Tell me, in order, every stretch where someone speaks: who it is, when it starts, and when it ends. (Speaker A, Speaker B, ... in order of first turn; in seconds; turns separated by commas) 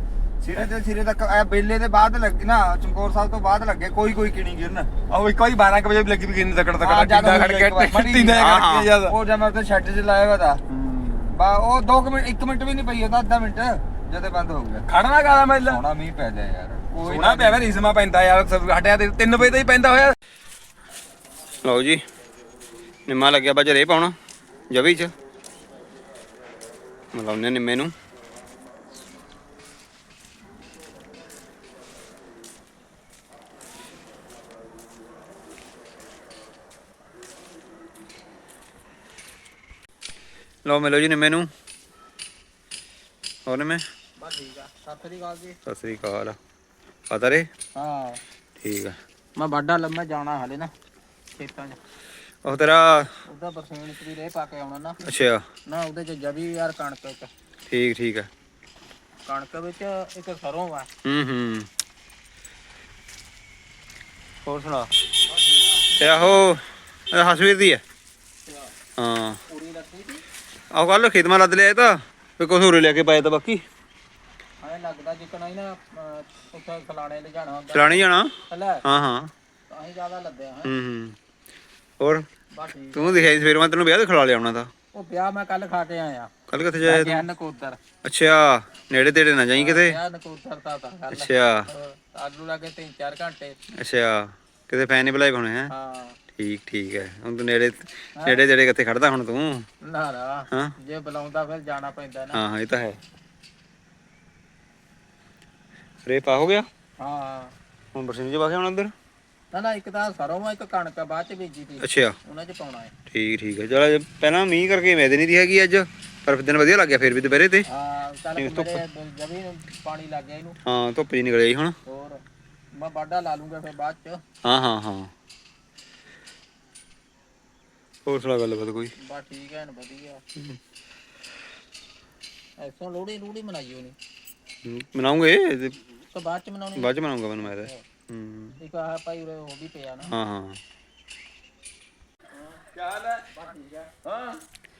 Speaker A: 1.4-1.7, Speaker A: 3.0-4.9, Speaker B: 5.1-9.2, Speaker A: 6.9-8.3, Speaker C: 8.3-9.0, Speaker A: 9.1-9.9, Speaker B: 10.7-11.4, Speaker B: 14.8-15.9, Speaker C: 15.7-17.7, Speaker B: 16.9-20.2, Speaker C: 21.6-22.0, Speaker C: 23.1-24.1, Speaker C: 24.7-25.1, Speaker C: 27.1-27.9, Speaker C: 40.6-41.5, Speaker C: 43.5-43.8, Speaker D: 44.2-45.6, Speaker C: 45.7-46.4, Speaker C: 47.1-47.5, Speaker D: 47.8-48.2, Speaker C: 48.6-49.0, Speaker D: 49.4-50.7, Speaker D: 51.4-51.8, Speaker C: 52.5-53.1, Speaker D: 53.3-55.0, Speaker C: 55.0-55.4, Speaker D: 55.7-57.3, Speaker C: 57.7-58.3, Speaker D: 59.3-60.9, Speaker C: 61.0-61.7, Speaker C: 64.5-64.9, Speaker D: 65.5-66.5, Speaker C: 66.0-67.8, Speaker C: 69.0-69.4, Speaker D: 69.5-70.2, Speaker C: 70.7-73.6, Speaker D: 74.6-78.8, Speaker C: 77.7-78.3, Speaker C: 78.8-79.3, Speaker D: 79.7-80.7, Speaker C: 80.7-81.2, Speaker C: 82.0-82.3, Speaker D: 82.5-83.5, Speaker C: 82.9-84.7, Speaker D: 84.9-86.3, Speaker C: 86.5-87.2, Speaker D: 86.8-87.8, Speaker C: 88.0-90.0, Speaker D: 89.5-93.6, Speaker C: 91.1-91.7, Speaker C: 93.8-95.7, Speaker D: 95.7-96.2, Speaker C: 96.3-99.7, Speaker D: 98.2-98.4, Speaker D: 99.8-102.4, Speaker C: 102.3-103.0, Speaker C: 106.0-106.7, Speaker D: 107.0-107.5, Speaker C: 107.9-108.9, Speaker D: 109.5-112.9, Speaker C: 111.8-112.2, Speaker C: 113.1-117.7, Speaker D: 117.7-120.6, Speaker C: 118.4-118.8, Speaker C: 120.7-121.8, Speaker D: 121.9-122.2, Speaker D: 122.7-124.2, Speaker C: 124.4-125.1, Speaker C: 128.1-128.9, Speaker D: 129.0-130.2, Speaker D: 132.6-134.0, Speaker C: 134.7-135.8, Speaker D: 136.1-137.8, Speaker C: 136.8-138.6, Speaker D: 138.6-140.2, Speaker C: 140.1-140.6, Speaker D: 142.3-142.6, Speaker B: 142.7-143.3, Speaker D: 143.3-143.9, Speaker B: 144.1-144.4